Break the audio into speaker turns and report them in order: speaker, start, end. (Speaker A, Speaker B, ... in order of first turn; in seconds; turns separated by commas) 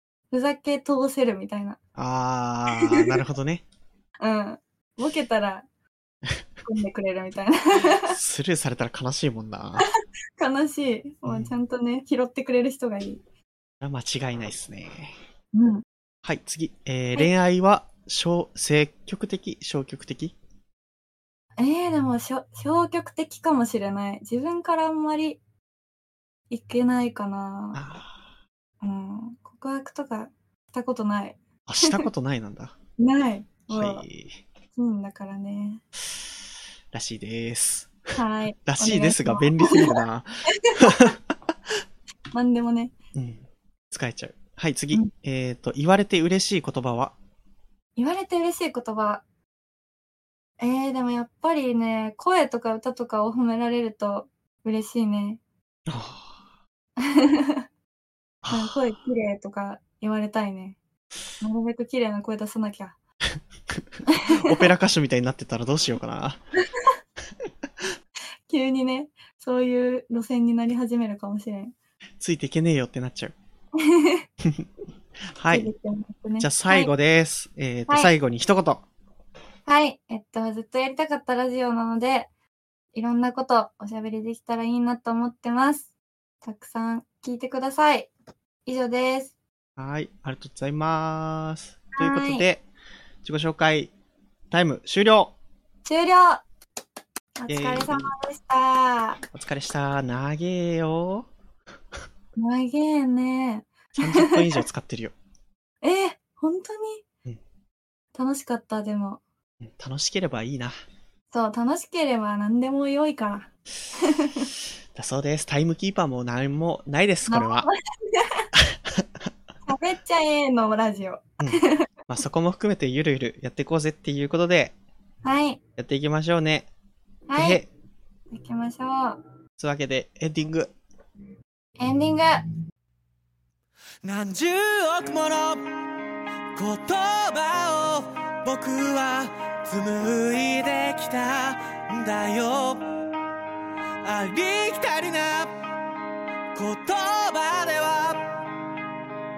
Speaker A: 0.3-1.8, Speaker B: 1.9-3.6, Speaker A: 2.7-3.1, Speaker A: 4.2-5.7, Speaker A: 6.6-8.1, Speaker B: 8.0-9.9, Speaker A: 10.4-13.2, Speaker B: 11.2-11.5, Speaker B: 13.8-15.1, Speaker A: 15.5-15.8, Speaker B: 16.2-20.3, Speaker A: 21.6-25.4, Speaker A: 26.5-27.8, Speaker B: 27.7-28.2, Speaker A: 28.8-32.1, Speaker B: 31.6-32.7, Speaker A: 33.0-34.0, Speaker B: 33.7-34.4, Speaker A: 34.7-35.8, Speaker B: 36.9-38.1, Speaker A: 38.1-41.1, Speaker B: 38.6-41.7, Speaker A: 42.3-42.9, Speaker B: 43.1-47.1, Speaker A: 48.0-49.2, Speaker A: 50.6-55.4, Speaker B: 55.9-56.4, Speaker A: 57.0-57.6, Speaker B: 58.4-58.9, Speaker A: 58.5-60.8, Speaker A: 61.4-63.0, Speaker B: 63.7-66.4, Speaker A: 64.1-64.7, Speaker A: 68.5-71.7, Speaker B: 72.2-73.3, Speaker A: 73.8-74.2, Speaker B: 75.3-75.7, Speaker A: 75.5-76.9, Speaker B: 76.4-78.8, Speaker A: 79.7-82.3, Speaker A: 82.9-85.9, Speaker A: 86.4-88.1, Speaker A: 88.7-89.3, Speaker B: 89.8-92.6, Speaker A: 91.9-92.5, Speaker B: 93.2-93.9, Speaker B: 94.5-95.3, Speaker A: 95.8-96.4, Speaker A: 97.4-99.2, Speaker B: 97.5-98.1, Speaker B: 99.3-101.3, Speaker A: 102.3-104.6, Speaker B: 104.0-105.1, Speaker A: 105.8-107.0, Speaker A: 108.2-109.2, Speaker B: 109.6-110.7, Speaker A: 111.3-114.5, Speaker B: 114.9-117.7, Speaker A: 117.3-118.5, Speaker B: 118.5-119.1, Speaker A: 119.6-121.8, Speaker B: 121.4-124.7, Speaker A: 125.2-125.6, Speaker B: 125.8-126.7, Speaker A: 127.3-127.6, Speaker B: 127.3-127.7, Speaker A: 128.3-129.2, Speaker B: 129.6-130.7, Speaker A: 131.8-132.4, Speaker C: 134.0-135.7, Speaker C: 136.6-142.9, Speaker C: 144.0-145.6, Speaker C: 146.5-148.4